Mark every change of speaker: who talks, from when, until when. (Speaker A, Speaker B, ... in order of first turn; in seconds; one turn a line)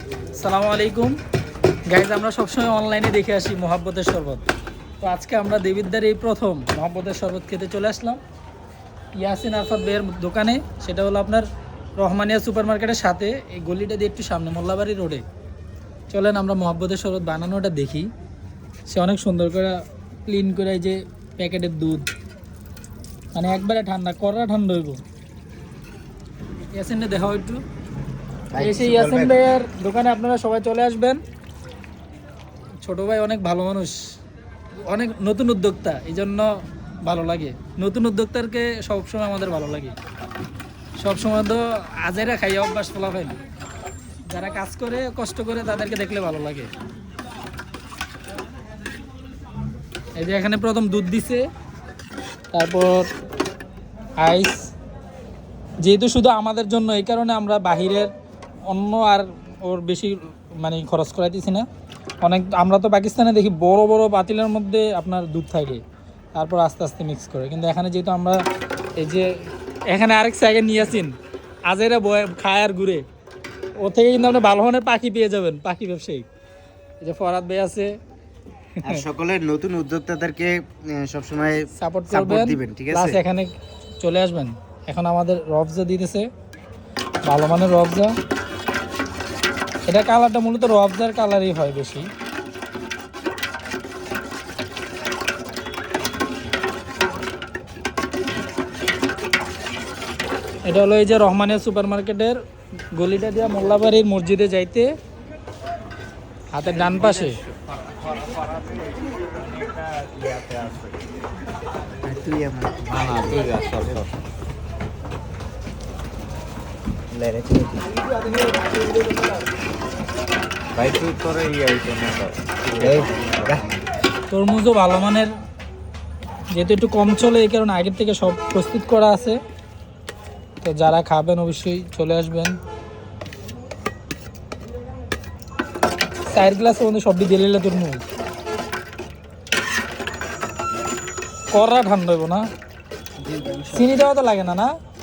Speaker A: 0.4-1.2
Speaker A: 1.9-4.4
Speaker A: 5.0-8.2
Speaker A: 9.2-15.2
Speaker A: 16.1-18.1
Speaker A: 18.9-22.1
Speaker A: 23.3-25.0
Speaker A: 26.7-27.6
Speaker B: 28.5-29.4
Speaker A: 28.6-31.2
Speaker A: 32.8-34.0
Speaker A: 34.8-36.5
Speaker A: 37.0-40.0
Speaker A: 41.0-43.4
Speaker A: 44.3-46.7
Speaker A: 50.2-51.5
Speaker A: 52.5-53.1
Speaker A: 54.2-54.7
Speaker A: 55.8-58.1
Speaker A: 58.7-61.6
Speaker A: 62.2-65.8
Speaker A: 66.3-68.4
Speaker A: 69.0-73.0
Speaker A: 73.8-76.2
Speaker A: 77.0-77.9
Speaker B: 78.8-83.2
Speaker A: 81.8-86.3
Speaker A: 87.2-88.1
Speaker A: 89.8-92.1
Speaker A: 100.6-102.4
Speaker A: 102.9-104.9
Speaker A: 106.5-107.4
Speaker C: 108.1-108.8
Speaker C: 109.6-111.0
Speaker B: 112.0-113.2
Speaker C: 112.9-114.1
Speaker B: 117.1-117.9
Speaker C: 120.7-123.7
Speaker B: 122.7-123.6
Speaker A: 124.3-125.3
Speaker A: 126.5-129.4
Speaker A: 130.6-132.6
Speaker A: 136.2-138.0
Speaker A: 141.5-142.5
Speaker B: 143.2-143.9
Speaker A: 143.7-144.7